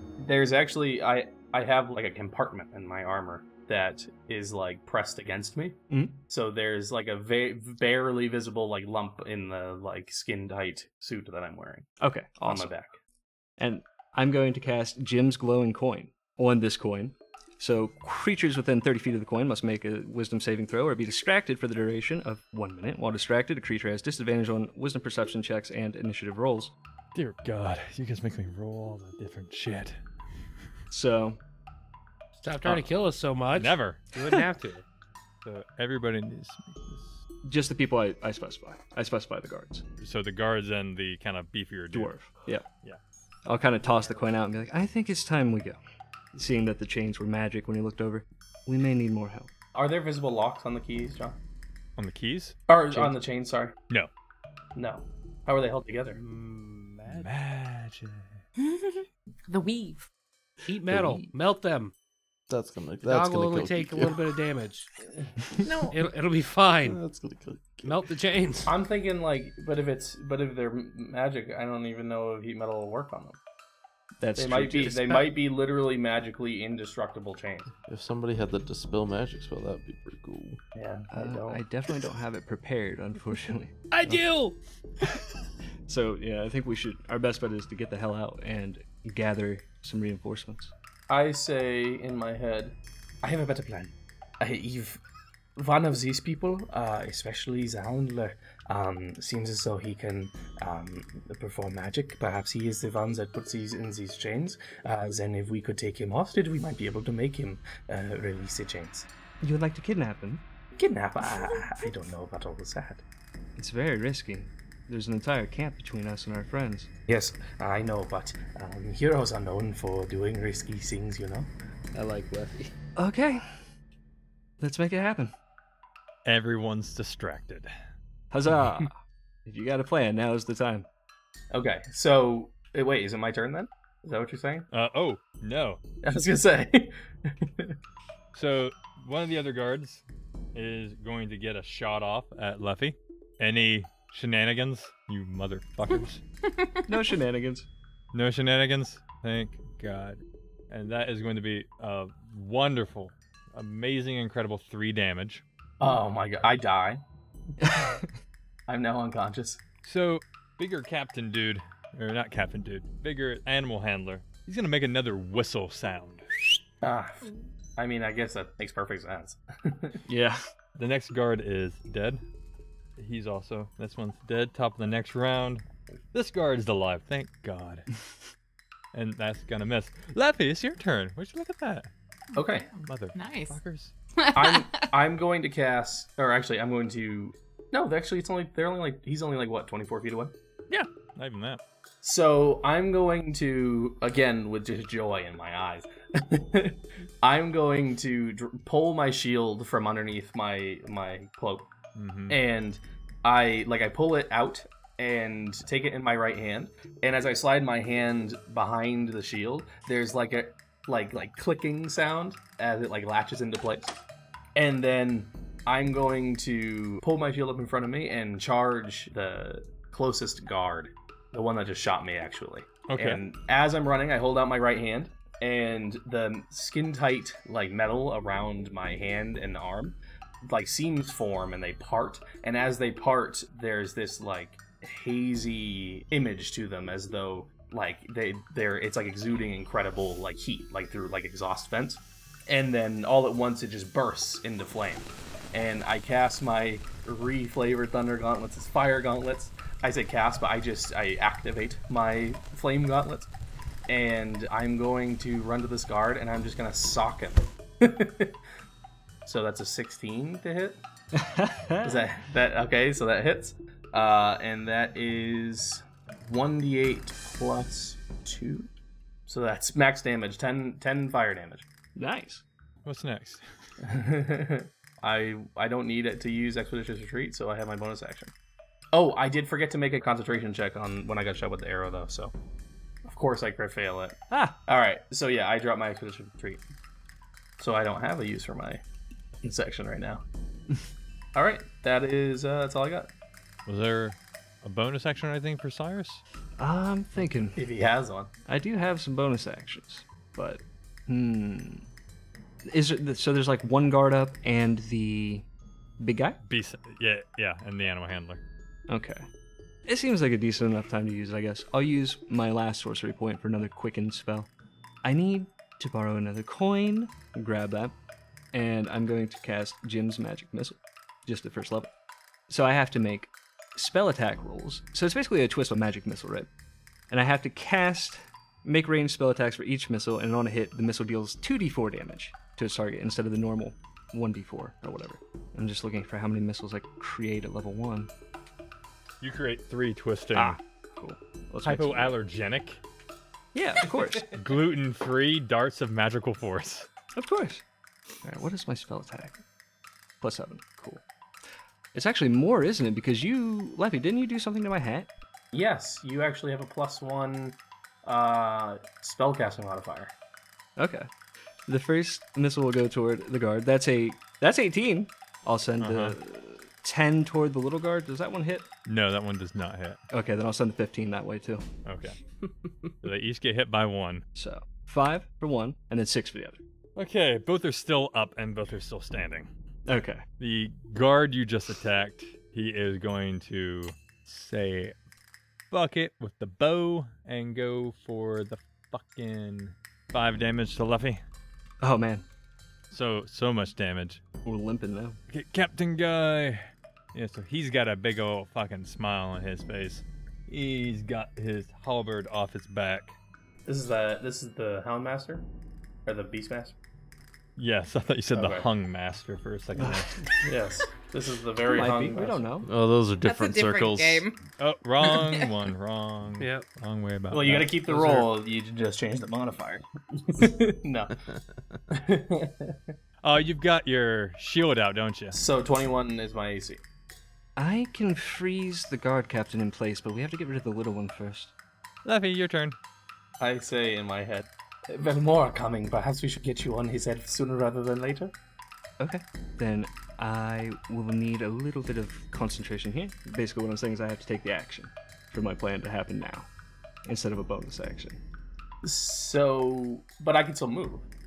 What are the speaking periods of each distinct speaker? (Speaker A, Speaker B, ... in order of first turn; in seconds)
Speaker A: 0.2-5.8, 6.3-11.9, 12.4-12.9, 49.7-51.4, 52.7-53.7, 54.7-56.2, 68.7-73.4, 74.3-77.7, 80.7-81.6, 91.1-95.0, 95.5-109.1, 110.8-113.0, 117.1-121.5, 131.5-134.7, 136.0-137.7, 155.8-157.0, 158.7-159.6, 166.8-170.0, 182.3-182.7, 184.3-190.3, 192.0-201.7, 202.3-213.9, 214.5-253.3, 253.9-258.3, 259.2-260.8, 261.8-268.7, 269.3-271.6, 273.8-278.3, 278.9-282.3, 283.0-286.6, 287.6-288.8, 289.4-290.2, 291.3-293.1, 297.6-298.3, 355.5-360.1, 403.7-405.4, 406.1-406.7, 408.3-408.7, 410.4-412.4, 417.3-421.1, 421.9-422.8, 425.3-426.8, 433.4-438.3, 448.8-451.1
Speaker B: 5.9-6.2, 12.0-12.7, 13.6-26.7, 30.9-31.4, 37.4-39.8, 41.9-42.6, 43.5-45.8, 46.3-49.5, 74.2-75.3, 81.1-84.2, 85.9-90.7, 109.4-110.4, 113.6-116.9, 123.0-123.5, 124.6-125.3, 128.3-130.9, 146.9-147.7, 157.6-158.1, 170.1-170.4, 261.1-262.1, 271.9-272.4, 284.3-284.6, 296.6-297.6, 298.4-301.9, 302.7-305.4, 306.0-306.4, 308.9-309.2, 309.9-314.5, 315.0-317.9, 318.5-321.9, 322.5-326.5, 327.1-338.1, 340.3-342.2, 343.5-344.3, 347.1-347.6, 348.2-349.4, 350.2-351.0, 351.9-355.1, 360.8-361.1, 361.7-368.7, 370.1-371.6, 374.4-376.6, 379.9-380.2, 391.8-392.2, 394.4-395.2, 409.8-410.1, 411.7-412.7, 427.6-431.5, 439.0-446.5, 447.1-448.2
Speaker C: 27.1-30.0, 33.5-34.0, 35.4-37.2, 40.0-42.1, 52.0-52.5, 57.1-58.4, 126.2-127.7, 134.7-135.8, 138.3-146.2, 148.1-155.4, 159.8-166.3, 170.8-172.2, 173.0-177.9, 178.9-181.9, 182.8-183.9, 190.7-191.6, 201.9-202.4, 222.9-223.2, 272.8-273.4, 293.6-296.2, 306.4-308.4, 339.2-340.6, 341.6-342.8, 344.3-346.9, 365.8-366.2, 368.9-370.0, 371.8-372.2, 373.0-374.2, 376.9-379.5, 380.4-384.9, 385.7-391.2, 392.9-394.2, 395.3-403.1, 407.6-410.1, 414.6-418.2, 423.2-425.4, 432.0-432.8
Speaker D: 32.3-34.8, 56.1-57.3, 60.6-61.9, 63.0-64.9, 65.9-67.0, 67.8-68.7, 83.9-84.6, 121.9-122.7, 416.4-416.7
Speaker E: 58.6-60.1, 65.6-66.0, 182.3-183.6, 184.2-184.8, 413.2-414.4, 415.0-415.5
Speaker F: 60.9-61.3, 62.5-64.3, 66.8-68.0, 77.9-80.6, 412.6-414.3